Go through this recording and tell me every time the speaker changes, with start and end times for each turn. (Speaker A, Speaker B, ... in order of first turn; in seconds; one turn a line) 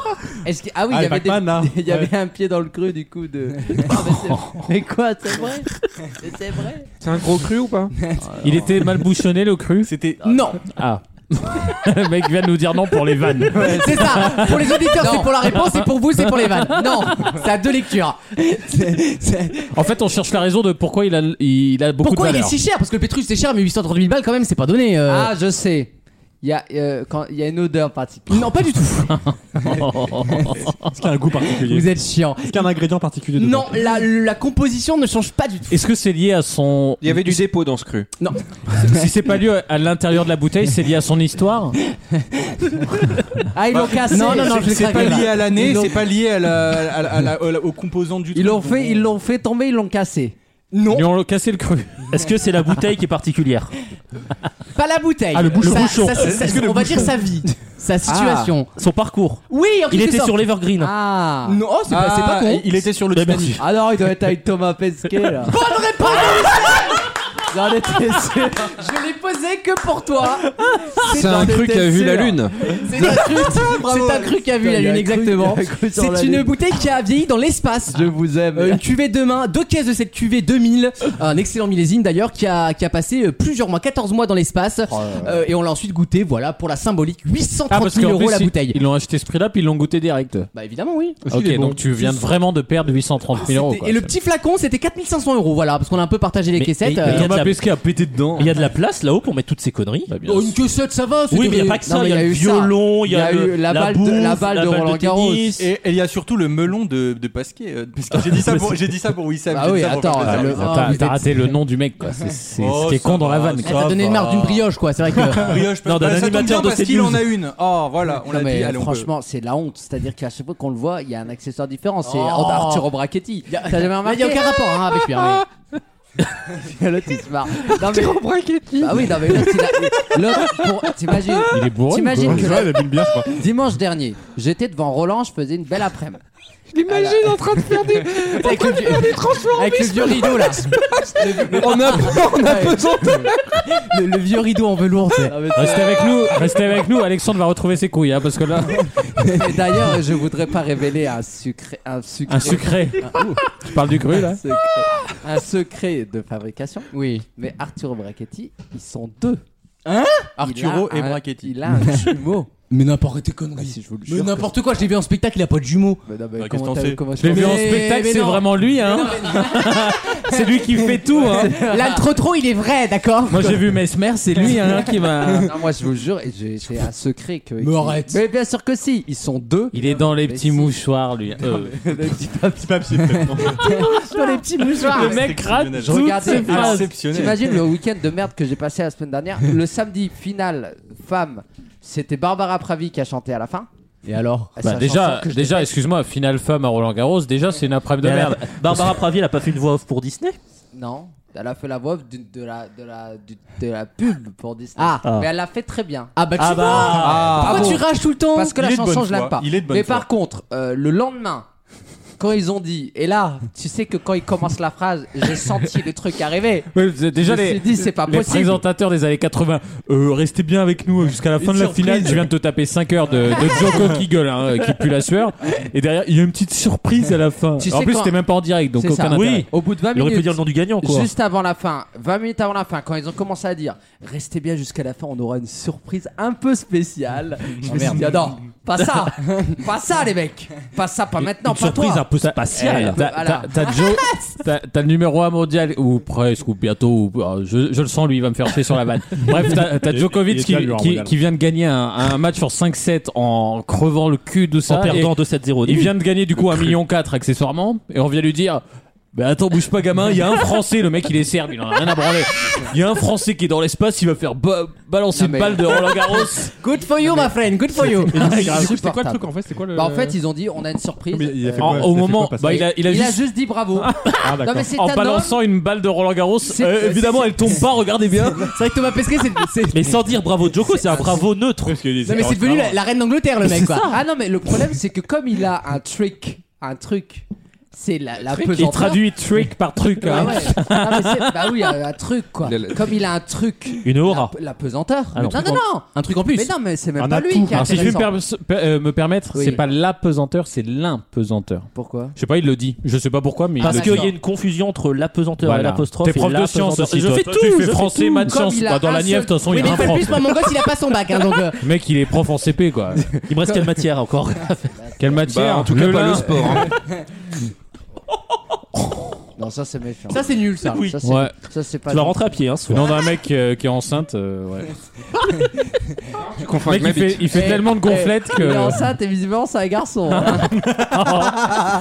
Speaker A: 0.4-6.9
Speaker B: 0.9-2.1
Speaker C: 3.8-4.7
Speaker D: 7.0-7.9
Speaker A: 8.2-8.6
Speaker C: 8.4-9.9
Speaker E: 9.8-10.4
Speaker F: 10.2-10.6
Speaker C: 10.6-14.9
Speaker F: 13.6-19.7
Speaker A: 13.7-15.6
Speaker C: 16.3-16.6
Speaker A: 16.7-17.5
Speaker C: 19.7-22.6
Speaker F: 22.0-25.3
Speaker A: 25.1-28.6
Speaker F: 28.3-29.2
Speaker C: 29.1-30.9
Speaker B: 30.9-31.9
Speaker F: 31.5-32.7
Speaker B: 32.4-34.0
Speaker F: 33.4-35.8
Speaker C: 35.7-37.4
Speaker D: 37.0-38.1
Speaker F: 38.2-39.0
Speaker C: 38.7-41.8
Speaker A: 43.5-45.9
Speaker E: 43.7-49.0
Speaker F: 44.1-45.9
Speaker A: 48.3-50.3
Speaker F: 50.7-51.1
Speaker C: 50.9-52.1
Speaker G: 52.1-53.7
Speaker F: 54.7-58.7
Speaker G: 55.4-56.5
Speaker C: 55.4-56.2
Speaker E: 56.3-57.2
Speaker A: 58.1-58.5
Speaker G: 58.8-60.9
Speaker F: 59.5-60.4
Speaker A: 60.8-61.6
Speaker F: 61.5-62.6
Speaker E: 61.9-63.6
Speaker G: 63.1-63.6
Speaker A: 63.6-65.5
Speaker F: 65.5-67.0
Speaker A: 66.5-66.9
Speaker A: 67.5-76.5
Speaker D: 71.0-72.8
Speaker F: 72.8-88.8
Speaker E: 72.9-74.3
Speaker A: 77.9-78.8
Speaker A: 84.9-85.3
Speaker C: 87.7-90.5
Speaker F: 90.5-91.2
Speaker B: 91.2-92.0
Speaker C: 91.3-94.1
Speaker F: 93.3-97.3
Speaker G: 96.6-97.6
Speaker C: 97.0-98.7
Speaker G: 98.4-100.1
Speaker C: 100.1-100.5
Speaker F: 100.2-101.8
Speaker G: 101.3-105.6
Speaker A: 101.8-105.6
Speaker E: 105.6-110.8
Speaker A: 109.5-111.0
Speaker F: 110.2-111.3
Speaker C: 110.2-113.9
Speaker E: 112.5-114.6
Speaker F: 113.6-115.6
Speaker E: 115.2-119.1
Speaker G: 115.8-117.3
Speaker A: 118.2-124.6
Speaker F: 122.0-122.9
Speaker F: 123.5-125.4
Speaker A: 126.5-136.2
Speaker C: 131.5-132.6
Speaker B: 132.2-133.3
Speaker A: 136.8-140.7
Speaker F: 138.1-140.7
Speaker A: 141.2-142.8
Speaker F: 141.2-142.7
Speaker D: 141.8-143.2
Speaker F: 143.7-145.3
Speaker A: 145.3-146.6
Speaker C: 145.5-148.9
Speaker A: 149.2-153.6
Speaker C: 152.3-154.4
Speaker A: 154.2-159.4
Speaker F: 156.9-157.2
Speaker F: 159.8-160.4
Speaker E: 160.4-161.6
Speaker A: 160.4-162.5
Speaker F: 162.7-166.0
Speaker A: 163.6-164.5
Speaker A: 166.1-167.9
Speaker E: 166.4-167.2
Speaker C: 167.2-171.6
Speaker F: 167.2-170.1
Speaker A: 171.0-172.1
Speaker F: 171.2-173.6
Speaker C: 173.3-175.5
Speaker A: 174.8-180.8
Speaker F: 177.6-178.2
Speaker C: 179.7-181.7
Speaker A: 181.4-193.7
Speaker B: 182.6-183.6
Speaker F: 183.6-185.2
Speaker E: 184.8-187.6
Speaker C: 184.8-186.9
Speaker F: 194.1-194.5
Speaker A: 194.6-195.7
Speaker C: 194.6-199.0
Speaker G: 198.0-200.4
Speaker A: 200.7-206.1
Speaker F: 204.8-205.0
Speaker F: 206.2-208.5
Speaker G: 206.4-207.4
Speaker E: 206.9-207.9
Speaker A: 207.3-211.4
Speaker E: 208.5-210.1
Speaker A: 212.2-218.6
Speaker C: 216.7-229.5
Speaker A: 221.7-222.1
Speaker A: 227.6-228.1
Speaker A: 228.8-244.4
Speaker G: 229.1-231.1
Speaker F: 237.7-238.0
Speaker C: 241.3-266.5
Speaker G: 242.2-243.0
Speaker B: 249.7-251.1
Speaker G: 254.7-256.7
Speaker A: 265.1-266.3
Speaker F: 266.6-268.2
Speaker A: 267.0-267.3
Speaker A: 268.1-273.9
Speaker B: 268.1-270.1
Speaker C: 268.1-270.0
Speaker B: 271.1-272.7
Speaker C: 271.6-278.5
Speaker B: 274.2-274.7
Speaker A: 274.4-275.4
Speaker A: 276.4-277.6
Speaker F: 278.5-280.0
Speaker G: 279.7-281.8
Speaker B: 281.6-282.8
Speaker F: 282.0-283.9
Speaker C: 283.5-283.8
Speaker A: 283.8-289.1
Speaker C: 288.4-291.7
Speaker A: 290.0-298.1
Speaker D: 292.4-293.0
Speaker G: 293.8-294.3
Speaker G: 295.1-295.6
Speaker F: 295.3-296.5
Speaker B: 297.0-298.0
Speaker C: 297.5-304.1
Speaker A: 299.3-299.6
Speaker A: 301.7-302.1
Speaker G: 303.6-308.3
Speaker F: 303.6-304.0
Speaker A: 303.7-304.1
Speaker C: 305.4-310.4
Speaker A: 308.2-310.1
Speaker F: 309.5-311.6
Speaker C: 311.6-313.2
Speaker G: 313.2-314.8
Speaker A: 314.8-315.2
Speaker C: 315.0-316.6
Speaker D: 315.2-316.7
Speaker A: 319.4-322.3
Speaker F: 320.1-320.9
Speaker C: 321.0-321.3
Speaker G: 321.9-322.9
Speaker C: 322.7-324.7
Speaker D: 326.4-327.6
Speaker C: 326.6-328.8
Speaker A: 327.3-330.5
Speaker C: 330.1-331.4